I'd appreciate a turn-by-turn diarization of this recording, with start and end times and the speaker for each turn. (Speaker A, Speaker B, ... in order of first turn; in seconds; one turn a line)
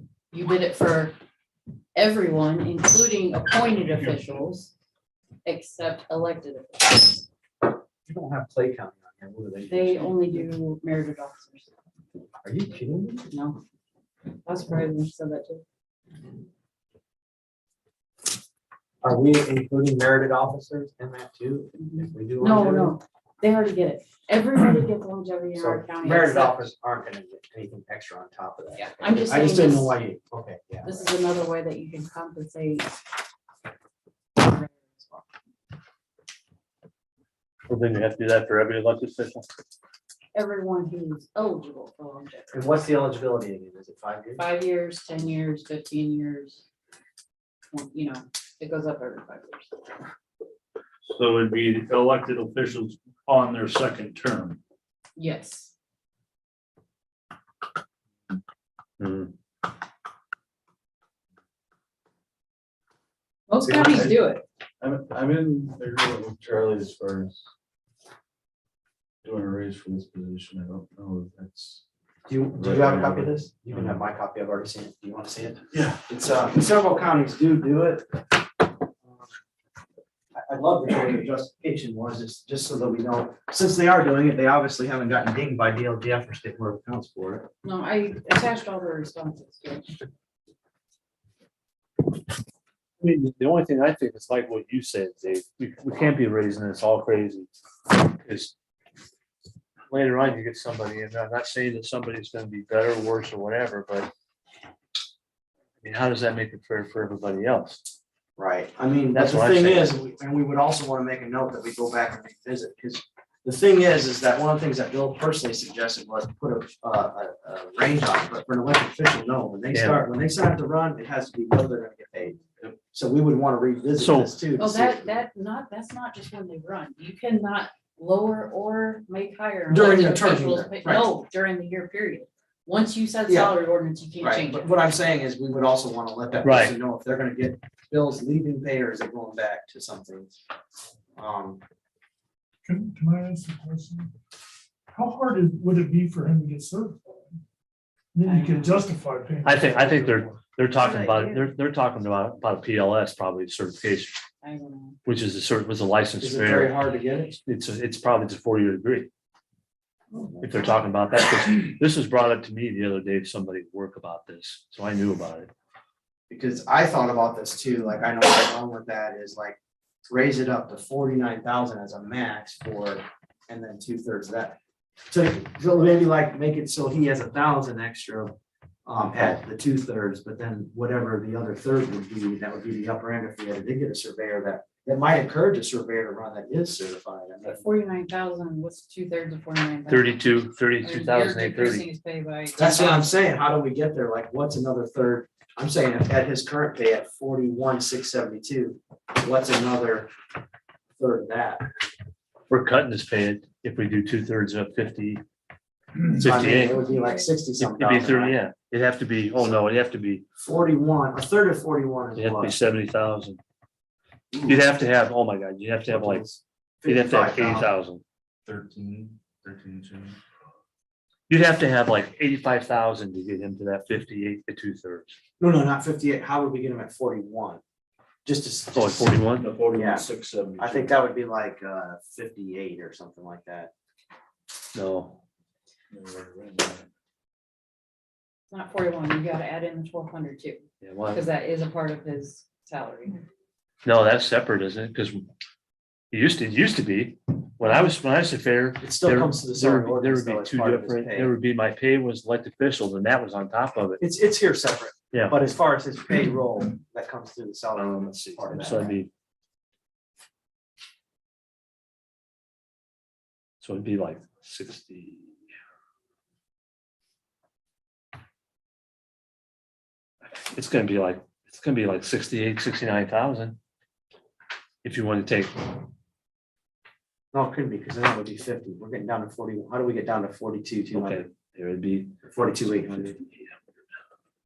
Speaker A: 0.3-1.2
Speaker A: 1.9-4.7
Speaker A: 5.5-7.3
Speaker B: 8.1-10.5
Speaker A: 9.7-11.7
Speaker B: 12.4-13.3
Speaker A: 13.3-13.6
Speaker A: 14.4-15.6
Speaker B: 19.0-23.0
Speaker A: 21.8-26.7
Speaker B: 25.6-31.1
Speaker A: 28.8-30.0
Speaker A: 30.9-32.9
Speaker A: 34.4-35.2
Speaker C: 37.7-39.5
Speaker A: 40.3-42.6
Speaker B: 42.5-44.4
Speaker A: 44.4-46.6
Speaker A: 47.7-50.0
Speaker D: 51.1-54.6
Speaker A: 55.2-55.7
Speaker C: 59.0-59.3
Speaker A: 63.5-64.4
Speaker E: 63.6-64.2
Speaker E: 64.8-67.4
Speaker E: 69.2-71.8
Speaker B: 72.3-78.3
Speaker E: 72.5-73.3
Speaker E: 75.7-76.0
Speaker B: 80.3-87.5
Speaker A: 87.6-90.1
Speaker C: 93.0-98.5
Speaker C: 99.9-104.1
Speaker C: 105.8-107.8
Speaker B: 108.4-125.2
Speaker C: 109.1-109.9
Speaker C: 119.7-120.1
Speaker C: 124.0-124.4
Speaker A: 124.6-134.8
Speaker B: 129.7-131.1
Speaker B: 133.3-133.6
Speaker B: 134.2-140.4
Speaker C: 136.4-136.8
Speaker B: 141.2-141.6
Speaker F: 142.7-144.1
Speaker F: 144.9-147.4
Speaker F: 148.1-150.4
Speaker A: 148.2-148.8
Speaker C: 149.4-154.2
Speaker A: 150.8-151.5
Speaker A: 154.4-155.0
Speaker C: 155.1-156.7
Speaker B: 156.2-157.4
Speaker C: 157.3-159.1
Speaker B: 160.1-160.6
Speaker C: 160.4-165.5
Speaker B: 166.3-169.6
Speaker B: 170.1-174.6
Speaker B: 175.1-187.6
Speaker A: 187.5-190.1
Speaker C: 189.9-191.8
Speaker A: 190.8-193.1
Speaker B: 192.6-200.1
Speaker B: 201.0-201.7
Speaker C: 202.5-205.2
Speaker B: 206.1-208.3
Speaker C: 206.1-206.8
Speaker C: 207.6-210.2
Speaker B: 209.4-209.7
Speaker B: 210.4-212.6
Speaker C: 212.2-213.4
Speaker B: 214.3-214.7
Speaker C: 214.5-216.3
Speaker B: 215.9-217.7
Speaker C: 216.9-218.0
Speaker E: 218.5-220.2
Speaker C: 221.3-225.2
Speaker B: 225.4-227.6
Speaker B: 228.3-229.2
Speaker C: 228.8-229.5
Speaker E: 229.4-231.0
Speaker B: 229.7-230.1
Speaker B: 230.6-233.7
Speaker C: 234.7-235.2
Speaker E: 235.9-236.8
Speaker A: 238.5-243.2
Speaker C: 240.8-241.2
Speaker C: 243.8-245.3
Speaker C: 246.1-254.0
Speaker B: 248.8-251.3
Speaker B: 254.0-259.0
Speaker C: 255.1-255.4
Speaker C: 257.7-259.1
Speaker C: 263.6-265.4
Speaker C: 270.4-273.6
Speaker C: 274.8-275.6
Speaker B: 277.3-281.2
Speaker C: 280.9-283.6
Speaker B: 282.3-283.2